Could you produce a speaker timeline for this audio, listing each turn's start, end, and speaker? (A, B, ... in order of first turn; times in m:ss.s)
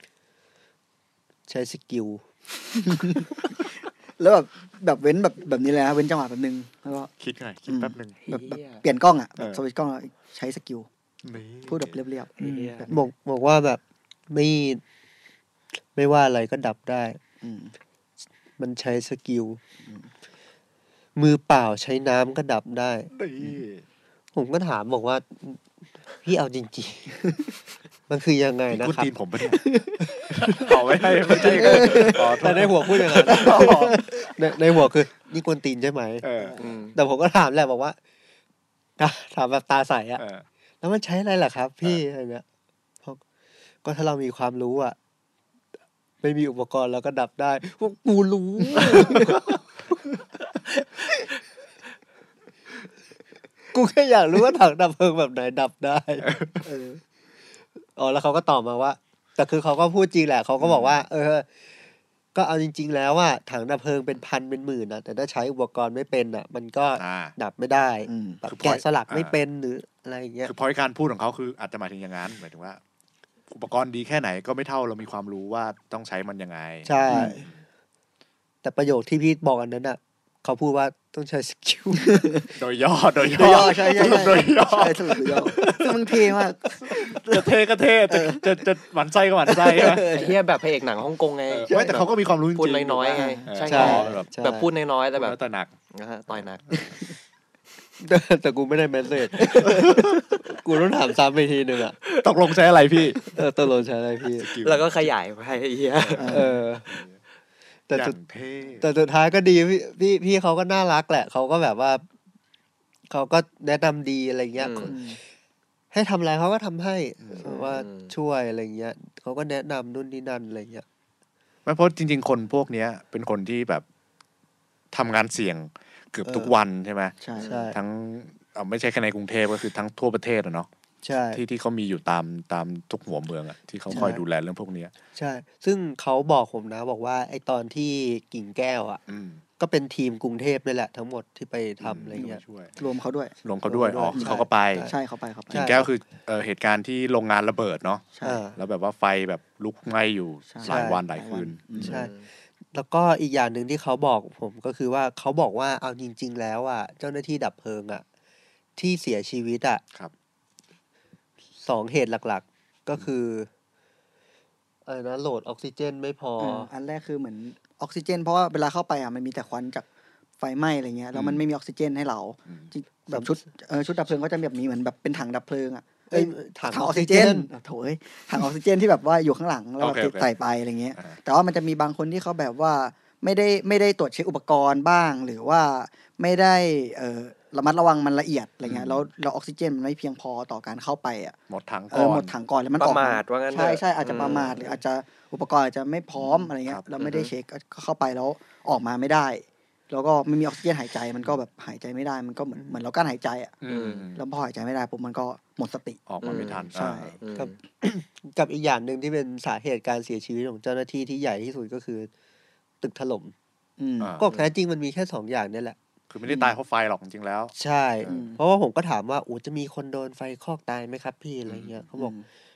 0:01.5-0:02.2 A
0:02.8-0:03.5 B
0:04.2-0:07.1 B
0:07.2-0:08.2 C
0:07.7-0:10.9 B
0:08.2-0:08.8 D
0:11.2-0:12.0 C
0:11.7-0:13.1 B
0:12.4-0:12.9 D
0:12.9-0:14.8 A
0:16.0-0:17.2 A
0:17.4-0:17.7 B
0:18.6-0:19.6 A
0:21.2-0:23.1 A
0:23.1-0:23.8 C
0:24.4-0:25.6 A
0:26.2-0:27.3 A
0:28.1-0:29.1 A
0:28.7-0:29.7 C
0:29.6-0:30.0 B
0:30.3-0:34.3 C
0:30.6-0:36.2 A
0:31.4-0:32.6 B
0:33.2-0:34.1 B
0:36.2-0:36.6 C
0:36.4-0:36.7 B
0:36.6-0:37.0 D
0:37.0-0:38.0 A
0:39.0-0:40.2 A
0:40.2-0:40.4 C
0:40.8-0:42.4 A
0:43.8-0:45.0 A
0:46.2-0:49.4 A
0:48.9-0:49.2 B
0:53.7-0:56.3 A
0:56.2-0:56.7 C
0:56.6-0:57.0 B
0:58.0-1:01.5 A
1:00.6-1:01.0 C
1:02.4-1:10.5 A
1:07.0-1:07.3 C
1:08.1-1:08.4 B
1:08.5-1:09.4 C
1:10.5-1:12.8 C
1:13.5-1:17.6 C
1:16.9-1:17.5 A
1:17.1-1:17.4 B
1:18.6-1:22.3 A
1:22.0-1:22.5 B
1:22.6-1:25.8 C
1:23.2-1:27.5 B
1:26.8-1:30.1 C
1:28.1-1:28.5 B
1:29.5-1:30.4 B
1:30.0-1:35.4 D
1:31.5-1:34.3 C
1:31.7-1:32.0 B
1:33.1-1:34.1 B
1:33.7-1:34.7 A
1:35.2-1:35.7 C
1:35.9-1:36.8 D
1:38.0-1:42.0 A
1:39.4-1:40.2 B
1:39.7-1:40.2 C
1:42.2-1:43.4 C
1:43.2-1:44.5 A
1:44.3-1:45.1 C
1:44.6-1:46.4 D
1:46.0-1:47.2 C
1:46.2-1:46.6 B
1:46.3-1:46.9 A
1:47.9-1:48.2 A
1:47.9-1:48.9 C
1:48.8-1:52.0 A
1:53.1-1:55.1 A
1:54.6-1:54.9 D
1:54.9-1:55.2 B
1:55.9-2:00.8 A
1:57.4-1:58.1 D
2:01.7-2:03.8 C
2:04.9-2:07.2 C
2:06.3-2:06.5 A
2:07.2-2:07.6 B
2:07.4-2:07.7 D
2:07.4-2:07.8 A
2:07.7-2:10.7 C
2:11.0-2:11.4 A
2:11.3-2:14.9 C
2:13.9-2:14.2 A
2:15.2-2:19.0 A
2:19.1-2:19.4 C
2:19.6-2:22.4 A
2:21.8-2:22.7 C
2:22.2-2:23.3 B
2:23.4-2:24.9 C
2:23.7-2:25.0 A
2:24.2-2:25.8 B
2:25.5-2:32.0 C
2:25.5-2:25.9 A
2:28.2-2:28.4 B
2:28.2-2:28.6 A
2:30.5-2:32.0 B
2:30.6-2:31.0 A
2:31.8-2:32.1 A
2:31.9-2:32.3 D
2:32.7-2:38.0 A
2:38.8-2:39.8 A
2:41.6-2:43.5 A
2:44.9-2:46.7 A
2:46.4-2:49.8 B
2:50.4-3:11.4 B
2:51.1-2:51.4 C
2:56.1-2:57.5 A
2:59.8-3:00.3 C
3:08.7-3:09.0 C
3:11.5-3:12.3 C
3:11.9-3:23.6 B
3:12.8-3:14.7 D
3:16.2-3:16.8 C
3:17.0-3:17.3 D
3:23.6-3:24.2 C
3:23.7-3:24.1 D
3:24.2-3:27.2 B
3:26.1-3:27.2 C
3:26.2-3:26.7 D
3:27.2-3:27.5 D
3:27.3-3:32.1 A
3:32.8-3:33.3 A
3:33.8-3:34.2 B
3:34.0-3:34.2 C
3:34.2-3:35.8 A
3:34.3-3:34.5 D
3:36.1-3:37.5 C
3:36.3-3:36.5 B
3:37.6-3:42.2 A
3:38.1-3:38.4 B
3:41.5-3:41.8 C
3:42.0-3:42.2 B